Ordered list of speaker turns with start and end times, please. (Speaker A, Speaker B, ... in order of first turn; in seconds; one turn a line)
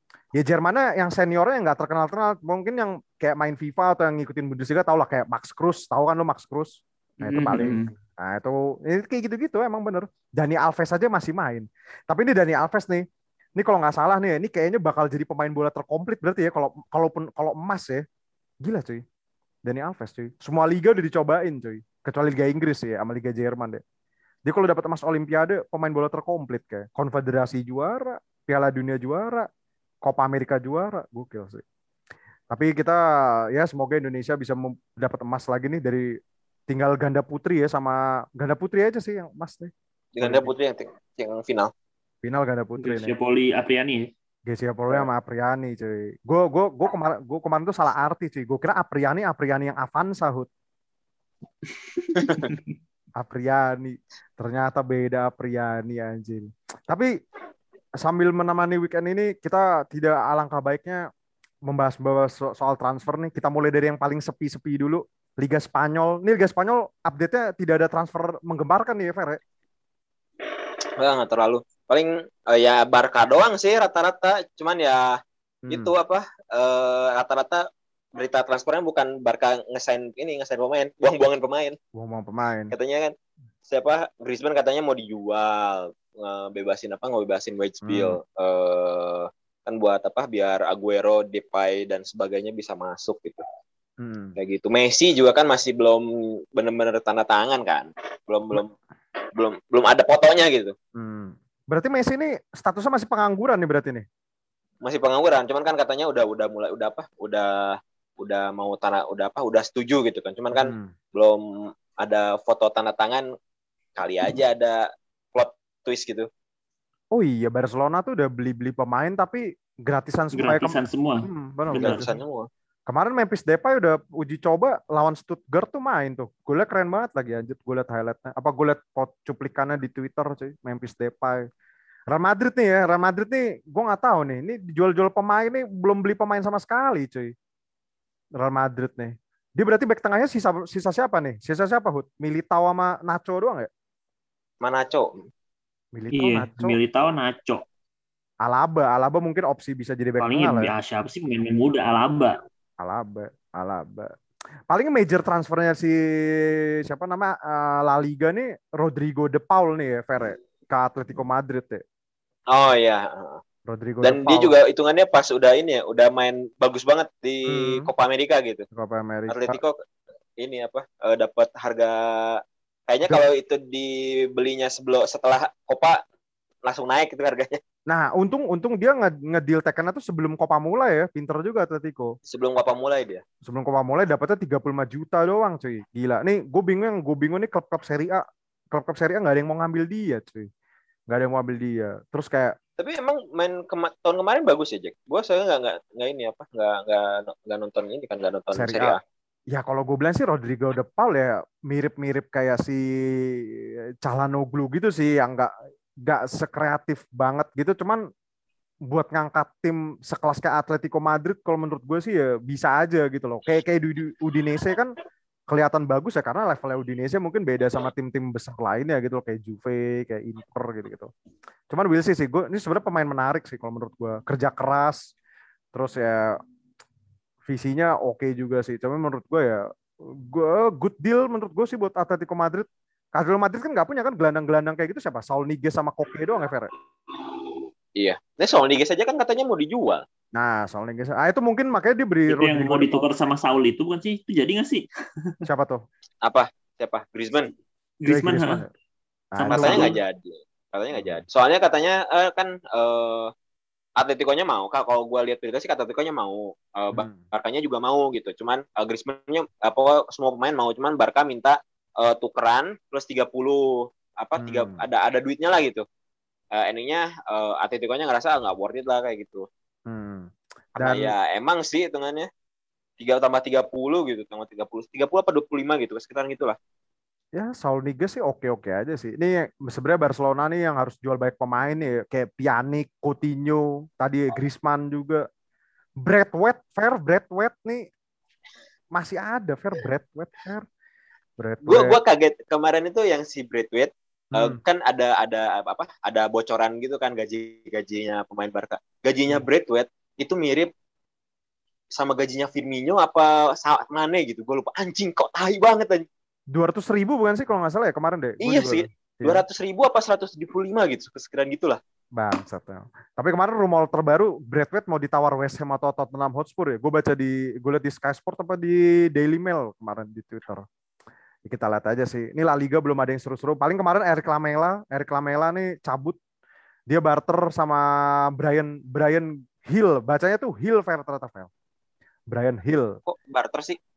Speaker A: 0.3-13.0
Speaker B: 7.2-7.9
Speaker A: 13.6-18.0
Speaker A: 18.6-19.0
Speaker A: 19.6-23.8
Speaker A: 24.4-29.5
Speaker A: 30.0-31.6
Speaker A: 32.5-40.5
Speaker C: 40.1-41.7
Speaker A: 42.2-43.1
Speaker B: 42.8-44.1
Speaker A: 44.5-50.5
Speaker B: 51.9-52.7
Speaker C: 52.1-52.5
Speaker A: 53.2-57.1
Speaker A: 58.0-61.1
Speaker A: 61.6-69.4
Speaker C: 70.4-75.2
Speaker A: 75.6-75.9
Speaker C: 75.7-77.6
Speaker C: 78.2-81.8
Speaker A: 81.9-82.7
Speaker C: 82.7-83.1
Speaker C: 83.7-93.4
Speaker A: 87.8-88.2
Speaker A: 94.0-94.3
Speaker C: 94.4-98.7
Speaker C: 99.3-100.7
Speaker A: 101.0-104.0
Speaker C: 104.8-113.2
Speaker A: 110.5-110.9
Speaker C: 114.0-116.3
Speaker A: 117.1-122.0
Speaker B: 120.3-122.1
Speaker C: 121.8-122.5
Speaker A: 122.9-131.4
Speaker A: 132.1-137.3
Speaker A: 138.4-143.7
Speaker C: 144.6-145.2
Speaker A: 145.9-146.8
Speaker B: 146.1-147.6
Speaker A: 148.4-150.7
Speaker B: 150.2-152.3
Speaker A: 152.8-154.2
Speaker A: 154.7-161.8
Speaker C: 162.5-163.4
Speaker A: 163.7-164.6
Speaker C: 164.0-168.6
Speaker A: 167.4-167.9
Speaker A: 168.7-169.6
Speaker C: 169.3-169.8
Speaker C: 170.4-176.0
Speaker C: 176.6-177.6
Speaker A: 177.9-182.2
Speaker C: 182.2-183.2
Speaker A: 183.4-190.5
Speaker A: 191.1-192.6
Speaker C: 192.8-199.0
Speaker A: 198.5-199.0
Speaker A: 199.5-205.5
Speaker A: 206.0-208.0
Speaker A: 208.9-214.9
Speaker A: 215.5-221.1
Speaker A: 221.7-225.1
Speaker A: 225.7-226.4
Speaker A: 227.4-236.7
Speaker C: 237.1-240.0
Speaker A: 240.3-243.0
Speaker B: 242.3-245.4
Speaker A: 245.4-245.8
Speaker C: 246.2-247.5
Speaker B: 248.0-248.6
Speaker A: 248.1-248.7
Speaker A: 249.3-249.9
Speaker B: 249.4-250.0
Speaker C: 249.5-253.3
Speaker A: 250.9-251.2
Speaker C: 254.0-265.8
Speaker A: 256.9-257.2
Speaker A: 264.4-264.8
Speaker C: 266.5-269.4
Speaker A: 269.9-271.1
Speaker C: 270.8-272.3
Speaker C: 273.0-276.6
Speaker A: 277.3-285.2
Speaker A: 286.0-287.9
Speaker A: 288.9-290.6
Speaker A: 291.4-292.0
Speaker C: 291.6-300.7
Speaker A: 294.3-294.6
Speaker C: 301.9-306.1
Speaker A: 306.5-309.4
Speaker C: 308.4-311.8
Speaker A: 312.1-320.6
Speaker A: 321.4-326.2
Speaker A: 326.9-331.5
Speaker A: 332.3-333.0
Speaker C: 333.1-333.8